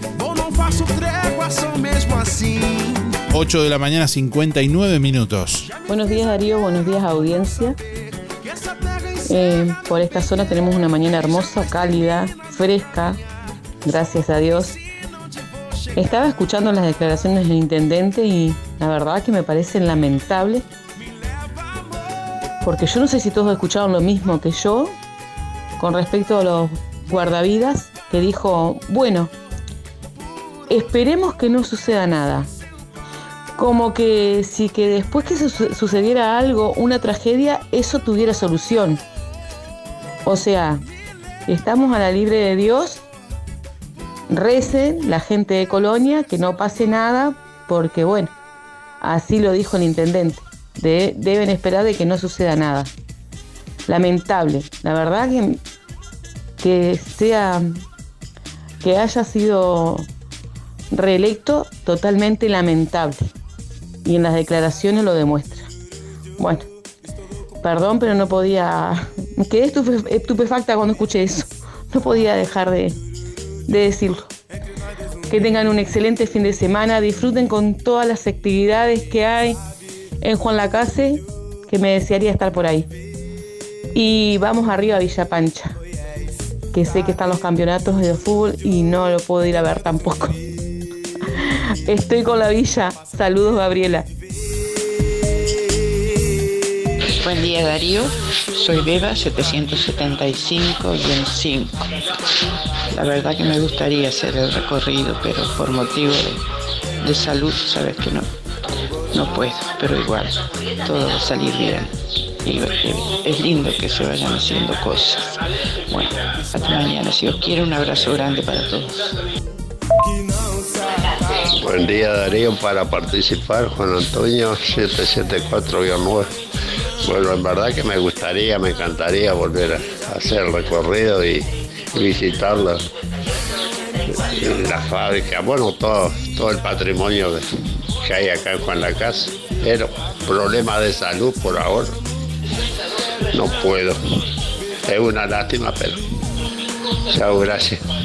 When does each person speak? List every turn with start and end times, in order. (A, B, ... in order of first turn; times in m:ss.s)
0:00.2-0:03.1 A
0:03.3-0:05.7 B
0:05.8-0:07.8 C
0:09.3-0:13.2 C
0:13.8-0:14.8 C
0:15.9-0:20.6 C
0:22.6-0:24.9 C
0:25.8-0:29.3 C
0:30.7-0:32.5 C
0:33.6-0:39.0 C
0:40.2-0:40.8 C
0:41.5-0:43.0 C
0:44.3-0:48.3 C
0:49.0-0:52.9 C
0:53.9-0:55.6 C
0:56.6-0:57.8 C
0:58.8-1:00.1 C
1:00.9-1:03.3 C
1:04.0-1:05.7 C
1:06.4-1:06.6 C
1:07.6-1:13.0 C
1:13.7-1:14.3 C
1:15.3-1:19.6 C
1:20.2-1:22.9 C
1:23.9-1:25.8 C
1:26.7-1:30.4 C
1:31.8-1:34.0 C
1:37.2-1:41.9 D
1:42.9-1:46.4 D
1:47.0-1:48.3 D
1:49.1-1:51.9 D
1:52.4-1:55.3 D
1:55.9-1:59.2 D
2:00.1-2:01.2 A
2:01.5-2:06.3 E
2:07.0-2:12.8 E
2:14.1-2:17.5 E
2:18.0-2:22.0 E
2:23.3-2:24.0 E
2:24.9-2:26.0 E
2:27.1-2:27.8 E